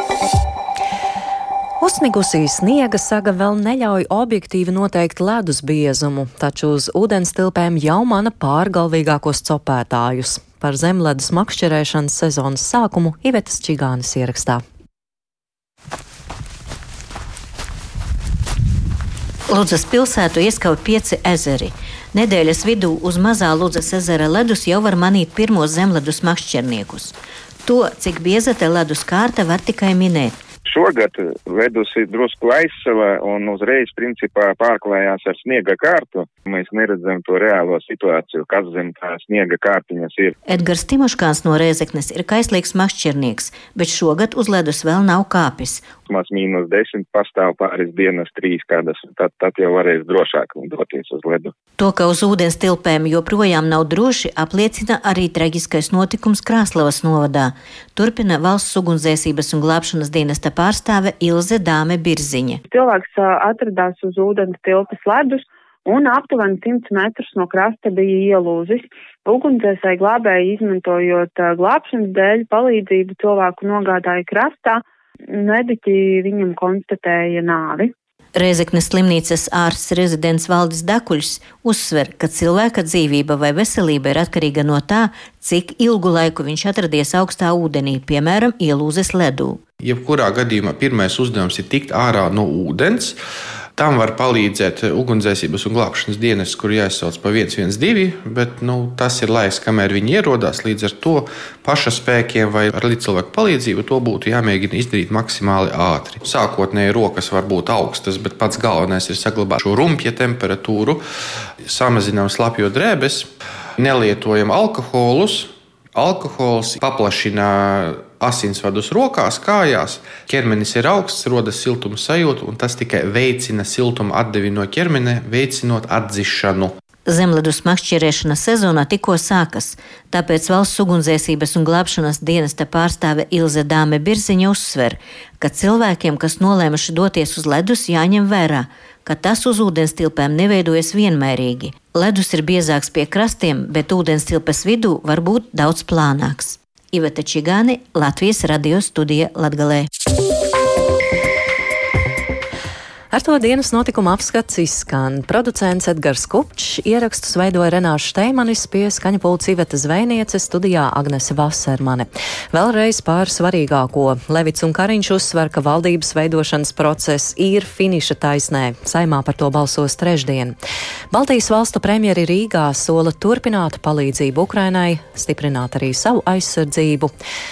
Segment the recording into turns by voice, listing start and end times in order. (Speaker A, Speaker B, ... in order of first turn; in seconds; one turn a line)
Speaker A: 1.8-14.6
Speaker B: 19.5-30.4
Speaker C: 30.6-40.3
Speaker B: 40.5-45.9
Speaker C: 46.1-51.5
Speaker B: 51.8-62.6
Speaker D: 62.7-77.9
Speaker B: 78.3-89.6
Speaker E: 89.8-93.2
Speaker E: 93.8-111.0
Speaker E: 111.6-126.7
Speaker B: 127.1-149.9
Speaker A: 153.1-170.6
Speaker A: 171.1-177.1